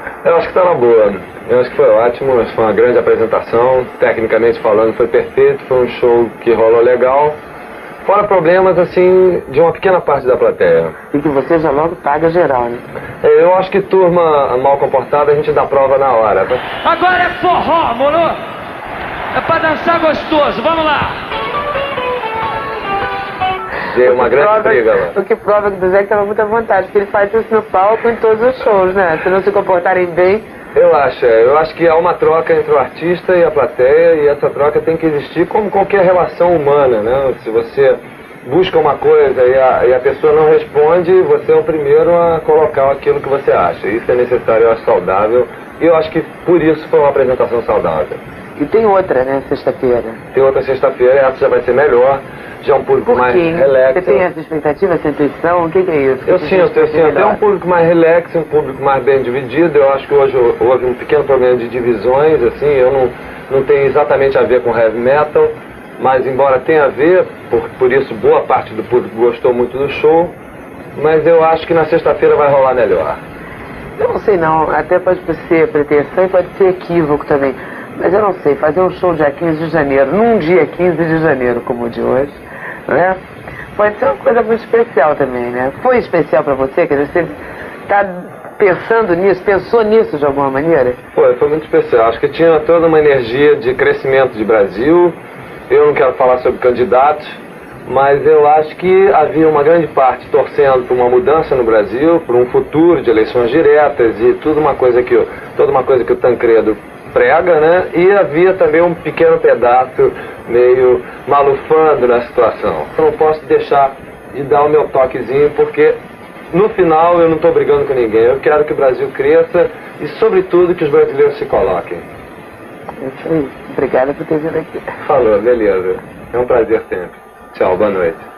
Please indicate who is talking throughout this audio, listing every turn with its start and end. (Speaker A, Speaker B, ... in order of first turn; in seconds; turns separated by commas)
Speaker A: 0.2-7.4, Speaker A: 8.0-11.0, Speaker B: 11.1-12.8, Speaker A: 13.2-16.7, Speaker C: 16.8-18.4, Speaker C: 19.3-21.2, Speaker A: 23.9-25.1, Speaker B: 24.0-30.4, Speaker A: 30.8-48.2, Speaker B: 48.6-50.2, Speaker A: 50.3-54.2, Speaker B: 53.1-57.4, Speaker A: 56.3-70.3, Speaker A: 71.0-73.2, Speaker B: 74.0-83.2, Speaker B: 83.7-87.4, Speaker B: 87.9-91.0, Speaker A: 91.2-95.2, Speaker A: 95.7-116.0, Speaker A: 116.5-122.1, Speaker B: 123.0-124.9, Speaker A: 125.0-128.3